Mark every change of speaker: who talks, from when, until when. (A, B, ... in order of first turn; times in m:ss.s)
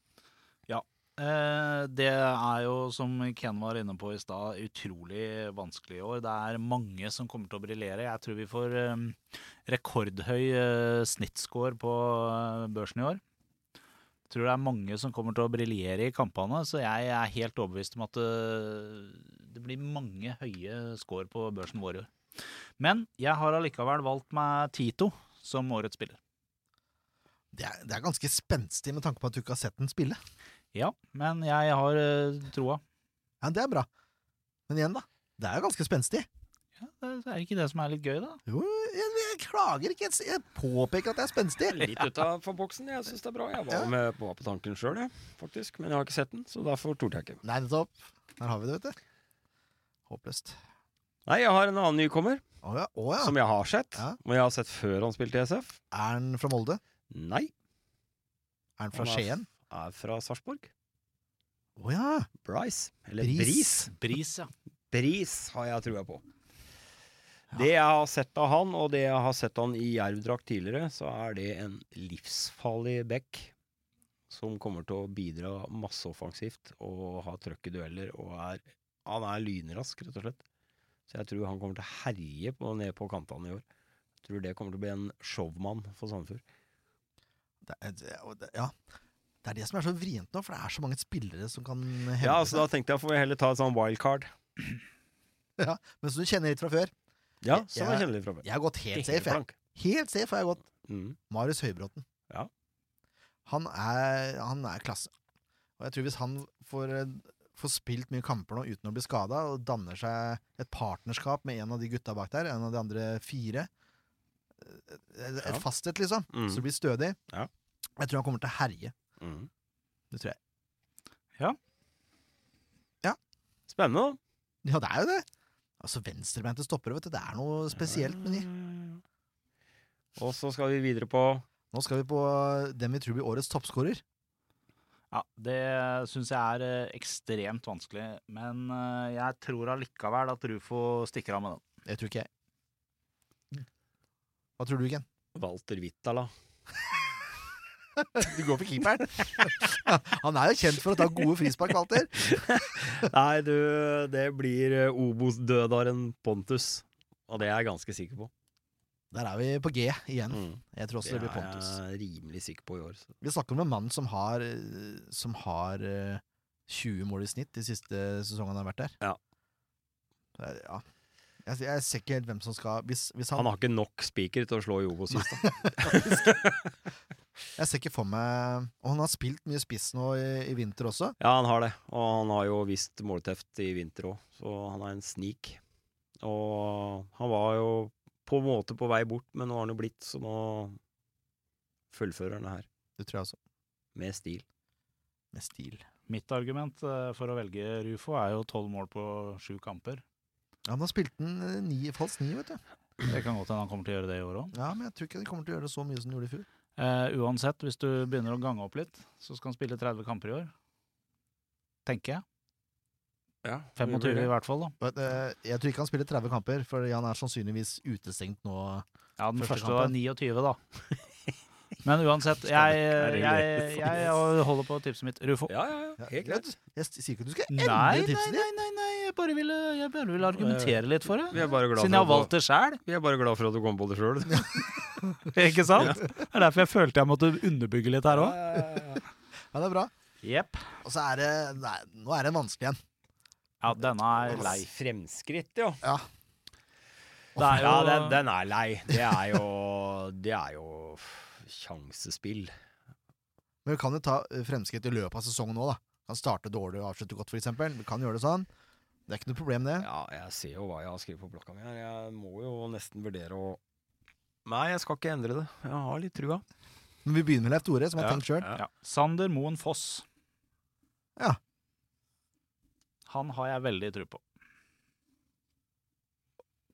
0:00.7-0:13.2 A
0:14.3-0:22.1 A
0:22.8-0:26.2 A
0:27.5-0:30.2 B
0:30.7-0:32.8 A
0:33.4-0:33.9 B
0:34.7-0:36.3 B
0:36.8-0:38.4 A
0:38.5-0:41.9 B
0:41.7-0:47.4 C
0:47.4-0:49.0 B
0:50.1-0:50.6 B
0:51.3-0:52.4 C
0:52.6-0:53.4 B
0:53.2-0:55.8 C
0:55.9-0:56.8 B
0:57.1-0:57.5 C
0:58.8-0:59.5 B
0:58.9-1:00.7 C
1:01.8-1:02.3 B
1:02.4-1:03.9 C
1:03.2-1:03.9 B
1:03.9-1:04.5 A
1:04.9-1:06.2 C
1:07.5-1:13.5 C
1:14.3-1:20.4 C
1:21.1-1:23.6 C
1:24.2-1:26.4 C
1:27.6-1:28.8 B
1:29.4-1:32.6 B
1:32.2-1:34.3 C
1:35.6-1:36.9 B
1:37.4-1:39.5 C
1:37.5-1:40.6 B
1:40.8-1:41.2 C
1:41.3-1:42.0 B
1:43.4-1:45.1 B
1:45.8-1:53.7 B
1:54.6-1:57.2 B
1:56.3-1:56.6 C
1:58.0-1:58.9 B
1:59.2-1:59.5 C
2:00.1-2:00.4 B
2:03.7-2:04.2 C
2:04.6-2:05.2 B
2:05.8-2:08.5 B
2:07.8-2:09.0 C
2:10.2-2:11.4 C
2:11.7-2:14.0 B
2:15.1-2:21.6 A
2:21.8-2:22.3 B
2:24.6-2:25.0 B
2:25.3-2:26.3 C
2:28.0-2:32.4 B
2:32.2-2:38.3 C
2:39.1-2:41.8 B
2:40.3-2:43.1 C
2:43.2-2:48.9 B
2:50.4-2:50.8 B
2:51.4-2:53.5 B
2:53.3-2:56.7 C
2:55.1-2:56.3 B
2:57.6-3:01.2 B
3:01.2-3:05.6 C
3:06.2-3:10.8 C
3:11.9-3:12.7 C
3:13.0-3:13.4 B
3:13.9-3:14.4 C
3:15.3-3:15.8 B
3:16.1-3:20.0 A
3:20.6-3:22.6 B
3:23.0-3:24.5 A
3:24.5-3:26.4 B
3:26.8-3:30.5 A
3:31.8-3:32.2 A
3:33.4-3:34.3 C
3:33.8-3:34.7 A
3:34.8-3:38.8 B
3:39.2-3:40.6 A
3:39.4-3:39.9 B
3:41.8-3:45.5 A
3:42.5-3:44.1 C
3:45.5-3:46.4 C
3:46.0-3:48.5 B
3:47.5-3:52.8 A
3:50.4-3:54.7 C
3:54.3-3:55.2 B
3:55.2-3:58.4 A
3:58.1-3:59.0 C
3:58.5-3:58.8 B
3:59.5-3:59.9 B
4:00.2-4:00.6 A
4:00.8-4:02.8 B
4:03.6-4:04.7 A
4:04.3-4:05.8 C
4:07.4-4:07.7 B
4:07.4-4:08.2 A
4:07.5-4:12.5 C
4:13.6-4:18.5 B
4:19.1-4:19.9 B
4:19.8-4:23.6 C
4:24.4-4:26.4 C
4:27.0-4:28.5 B
4:28.0-4:28.6 C
4:28.5-4:30.0 A
4:33.1-4:34.2 A